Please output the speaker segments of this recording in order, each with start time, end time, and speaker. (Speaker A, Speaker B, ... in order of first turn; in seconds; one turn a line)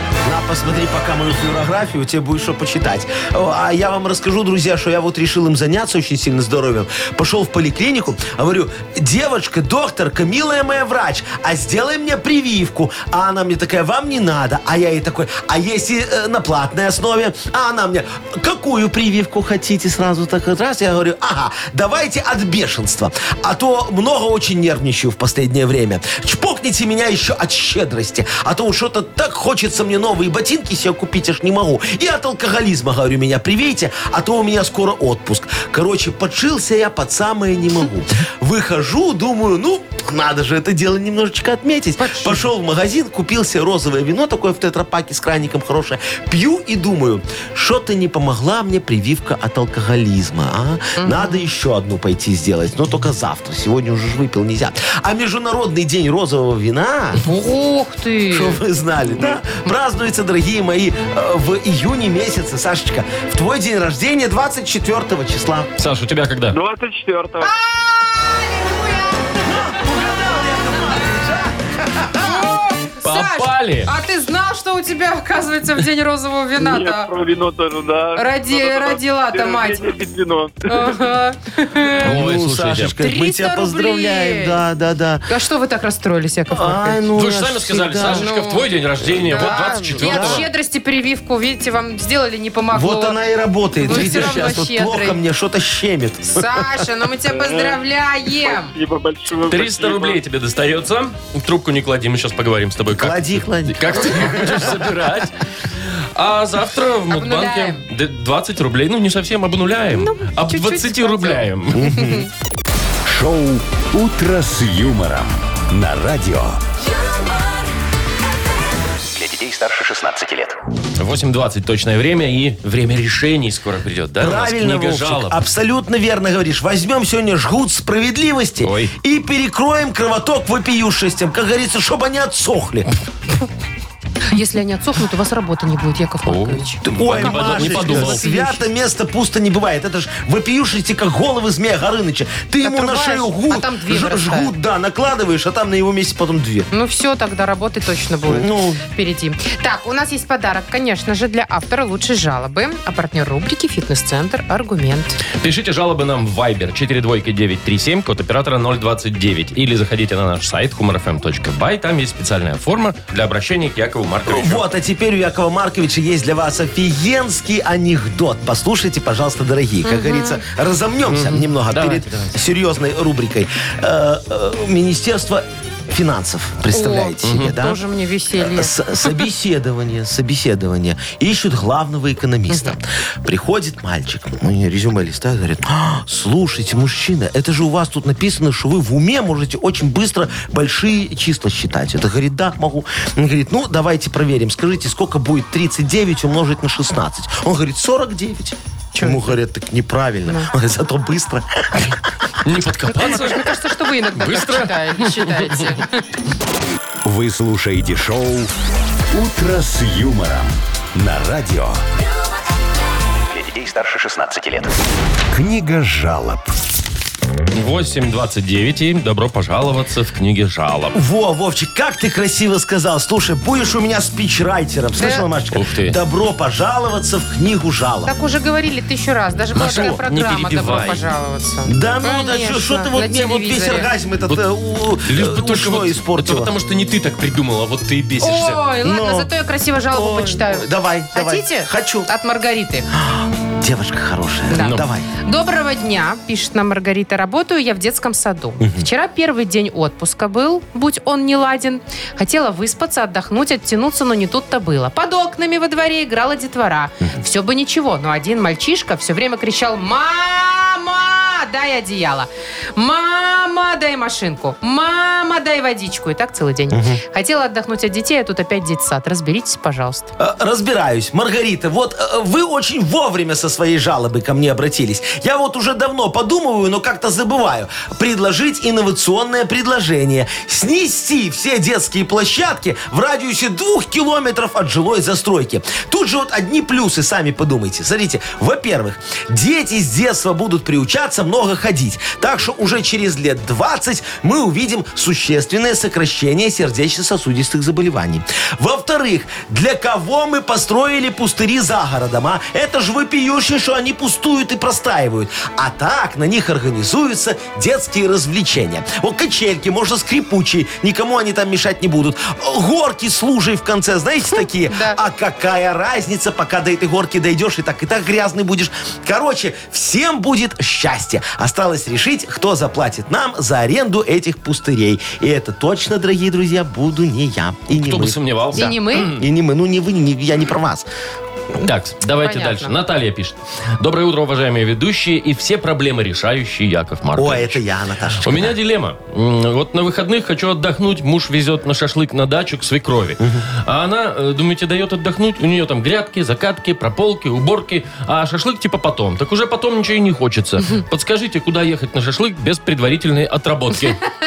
Speaker A: 0.2-57.2
Speaker B: 42.0-42.5
Speaker B: 51.0-51.4
Speaker B: 57.2-58.6
Speaker A: 58.3-65.7
Speaker C: 65.8-66.6
Speaker D: 66.5-67.5
Speaker B: 67.4-69.5
Speaker A: 69.4-72.4
Speaker B: 72.2-77.1
Speaker C: 73.0-73.9
Speaker D: 76.5-81.1
Speaker B: 78.1-79.9
Speaker B: 80.7-82.1
Speaker A: 82.0-85.3
Speaker C: 82.0-82.9
Speaker B: 83.0-84.6
Speaker B: 85.3-87.1
Speaker A: 86.5-88.3
Speaker C: 87.1-90.5
Speaker B: 88.0-88.7
Speaker A: 89.2-90.5
Speaker B: 89.2-93.2
Speaker A: 92.7-96.6
Speaker B: 93.8-95.2
Speaker C: 93.9-94.5
Speaker B: 96.3-98.7
Speaker D: 97.3-97.8
Speaker D: 98.4-100.2
Speaker C: 99.5-105.3
Speaker A: 103.0-104.8
Speaker C: 106.1-111.9
Speaker B: 107.1-107.8
Speaker B: 109.9-112.3
Speaker A: 111.7-112.2
Speaker E: 113.0-116.6
Speaker F: 119.1-120.5
Speaker C: 121.0-125.4
Speaker A: 124.2-132.9
Speaker C: 128.6-128.9
Speaker B: 134.3-138.7
Speaker C: 136.2-138.2
Speaker A: 136.8-146.7
Speaker B: 142.6-144.5
Speaker B: 146.7-155.2
Speaker A: 148.2-148.8
Speaker C: 155.4-164.6
Speaker A: 164.3-177.8
Speaker B: 169.8-170.4
Speaker C: 171.1-172.3
Speaker B: 176.7-179.2
Speaker C: 177.2-177.6
Speaker A: 178.4-201.9
Speaker B: 182.5-182.8
Speaker B: 198.9-199.4
Speaker C: 202.4-205.7
Speaker B: 202.9-206.0
Speaker E: 207.0-208.5
Speaker E: 209.1-211.8
Speaker F: 213.3-214.7
Speaker E: 215.3-216.5
Speaker C: 217.5-221.0
Speaker A: 220.9-228.1
Speaker B: 225.0-225.3
Speaker C: 225.5-226.0
Speaker B: 228.0-233.9
Speaker C: 229.5-231.0
Speaker A: 229.6-229.9
Speaker A: 231.7-236.5
Speaker C: 235.0-238.6
Speaker B: 238.2-242.9
Speaker A: 238.8-239.3
Speaker A: 239.9-242.1
Speaker A: 242.9-245.1
Speaker B: 244.5-270.1
Speaker C: 244.6-244.9
Speaker A: 248.6-248.9
Speaker A: 266.7-267.0
Speaker A: 270.2-330.9
Speaker B: 314.3-315.0
Speaker C: 327.8-329.2
Speaker B: 328.5-329.1
Speaker C: 331.6-337.6
Speaker B: 332.2-332.7
Speaker A: 337.1-338.6
Speaker C: 338.2-354.0
Speaker A: 343.2-343.4